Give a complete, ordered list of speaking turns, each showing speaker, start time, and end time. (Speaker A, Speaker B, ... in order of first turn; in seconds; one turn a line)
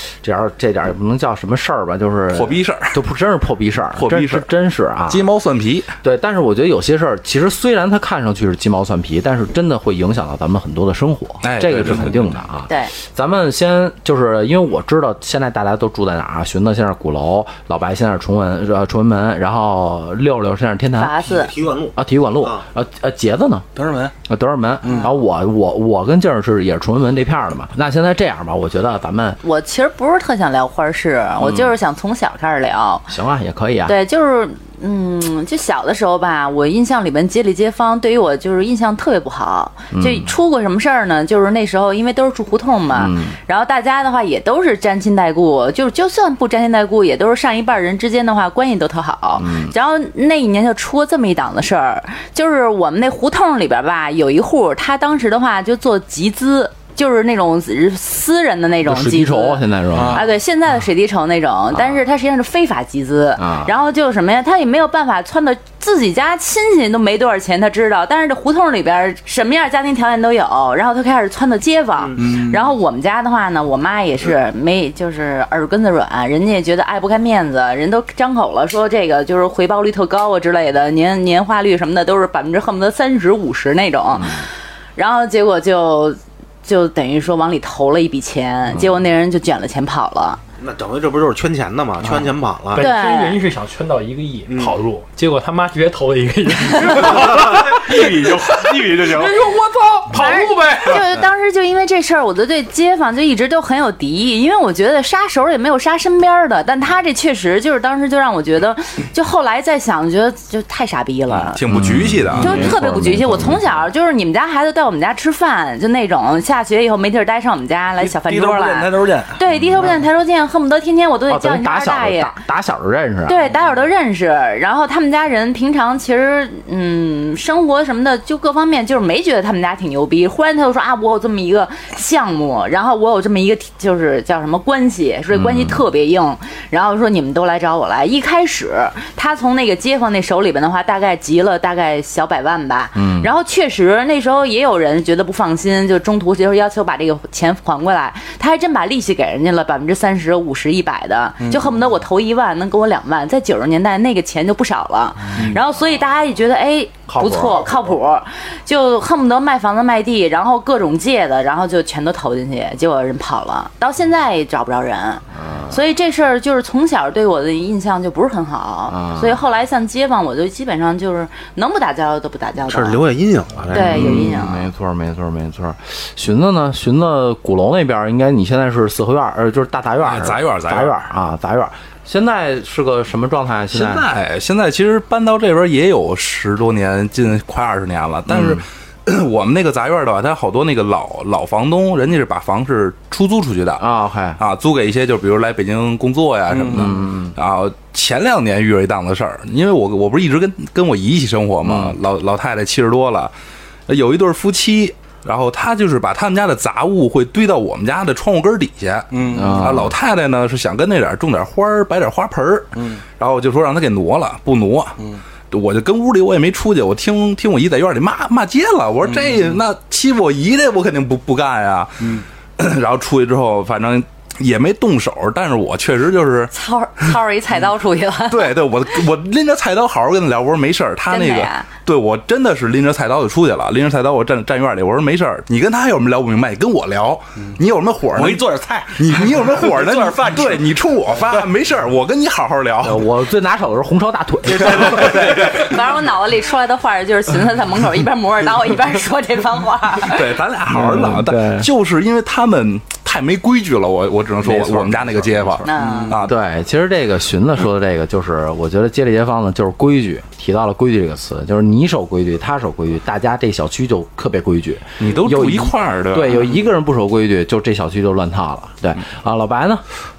Speaker A: 0.2-5.2
Speaker B: 2.3-3.0
Speaker B: 4.0-4.5
Speaker B: 5.1-5.9
Speaker A: 6.0-21.2
Speaker B: 11.4-12.4
Speaker C: 21.0-21.5
Speaker D: 21.2-22.6
Speaker A: 21.9-23.7
Speaker E: 23.7-24.1
Speaker A: 24.2-29.4
Speaker C: 29.4-33.1
Speaker A: 33.1-34.0
Speaker C: 33.9-90.4
Speaker A: 39.9-40.4
Speaker A: 42.9-43.4
Speaker A: 49.3-49.7
Speaker A: 58.8-60.2
Speaker E: 59.9-60.2
Speaker A: 63.4-63.7
Speaker D: 72.0-72.3
Speaker E: 72.2-72.7
Speaker A: 84.2-84.4
Speaker D: 90.6-92.9
Speaker F: 92.7-101.0
Speaker C: 92.8-93.4
Speaker D: 94.5-94.7
Speaker E: 96.8-99.4
Speaker C: 100.1-111.6
Speaker B: 111.4-112.7
Speaker A: 111.7-113.8
Speaker C: 112.4-122.3
Speaker E: 118.0-119.4
Speaker A: 121.3-123.4
Speaker C: 123.2-173.0
Speaker A: 135.3-135.8
Speaker A: 142.9-143.3
Speaker E: 151.4-151.7
Speaker A: 155.3-155.6
Speaker A: 157.1-158.0
Speaker A: 165.3-165.8
Speaker A: 168.9-169.4
Speaker D: 172.7-174.4
Speaker C: 173.7-174.7
Speaker A: 173.7-184.1
Speaker B: 180.0-180.9
Speaker B: 183.7-193.8
Speaker A: 188.3-188.6
Speaker A: 193.8-194.4
Speaker B: 194.4-203.3
Speaker E: 196.5-196.9
Speaker A: 196.7-197.3
Speaker A: 201.6-201.9
Speaker B: 203.9-215.0
Speaker E: 209.1-209.7
Speaker A: 209.3-209.9
Speaker E: 212.7-213.0
Speaker B: 215.5-226.5
Speaker E: 219.0-219.6
Speaker C: 226.5-228.5
Speaker B: 228.3-238.4
Speaker C: 231.1-231.7
Speaker E: 238.1-241.4
Speaker B: 238.9-243.1
Speaker A: 242.8-245.3
Speaker B: 244.6-245.7
Speaker C: 245.1-250.4
Speaker B: 250.0-256.3
Speaker A: 250.7-251.7
Speaker A: 254.4-269.8
Speaker C: 255.6-256.1
Speaker B: 265.0-266.4